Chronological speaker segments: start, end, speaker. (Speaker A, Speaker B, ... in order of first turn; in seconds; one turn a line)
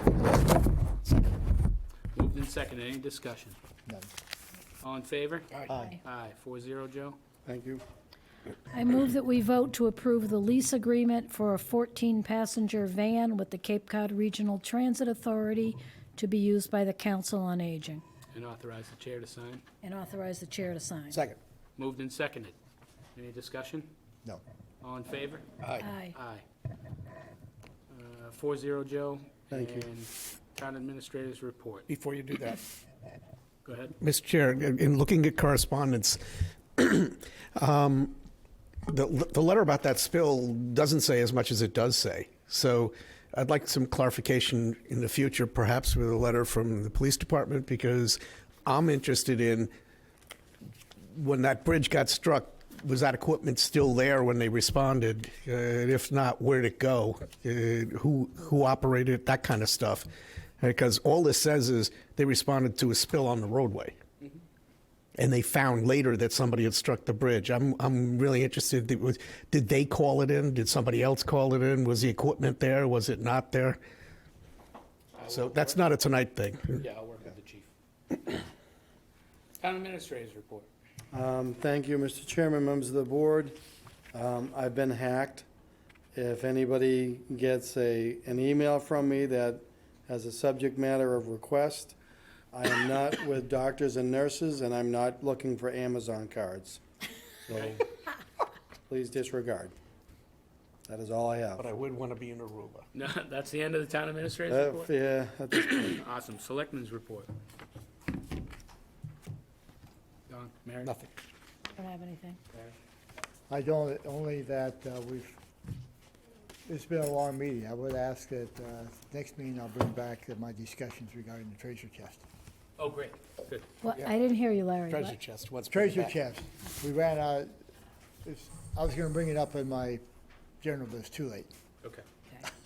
Speaker A: 2.1-3.6
Speaker A: 4.8-7.2
Speaker B: 7.5-7.8
Speaker C: 8.7-18.0
Speaker A: 18.3-19.6
Speaker C: 19.8-21.2
Speaker D: 21.1-21.4
Speaker A: 21.8-22.6
Speaker A: 23.1-23.9
Speaker A: 24.8-25.5
Speaker E: 25.6-25.9
Speaker C: 25.8-26.2
Speaker A: 26.1-26.4
Speaker A: 27.9-31.9
Speaker B: 29.5-29.8
Speaker E: 31.9-32.6
Speaker A: 33.6-34.0
Speaker E: 34.0-36.2
Speaker E: 36.7-38.2
Speaker E: 38.9-49.7
Speaker E: 51.1-60.1
Speaker E: 60.6-64.0
Speaker E: 65.2-73.8
Speaker A: 75.2-75.8
Speaker E: 75.2-76.8
Speaker A: 76.7-77.7
Speaker A: 79.6-80.7
Speaker B: 81.1-83.5
Speaker B: 84.1-85.5
Speaker B: 86.1-92.0
Speaker B: 92.5-96.8
Speaker B: 97.5-97.8
Speaker A: 97.5-97.8
Speaker B: 98.9-99.7
Speaker B: 100.8-101.6
Speaker E: 101.6-102.8
Speaker A: 102.9-104.9
Speaker B: 104.5-106.0
Speaker A: 105.6-107.3
Speaker A: 110.3-110.9
Speaker E: 110.8-111.1
Speaker C: 111.7-112.4
Speaker D: 113.5-115.4
Speaker D: 116.7-122.2
Speaker A: 122.8-123.8
Speaker C: 123.8-125.2
Speaker E: 124.9-126.1
Speaker D: 125.7-127.5
Speaker D: 128.2-130.0
Speaker D: 130.6-131.5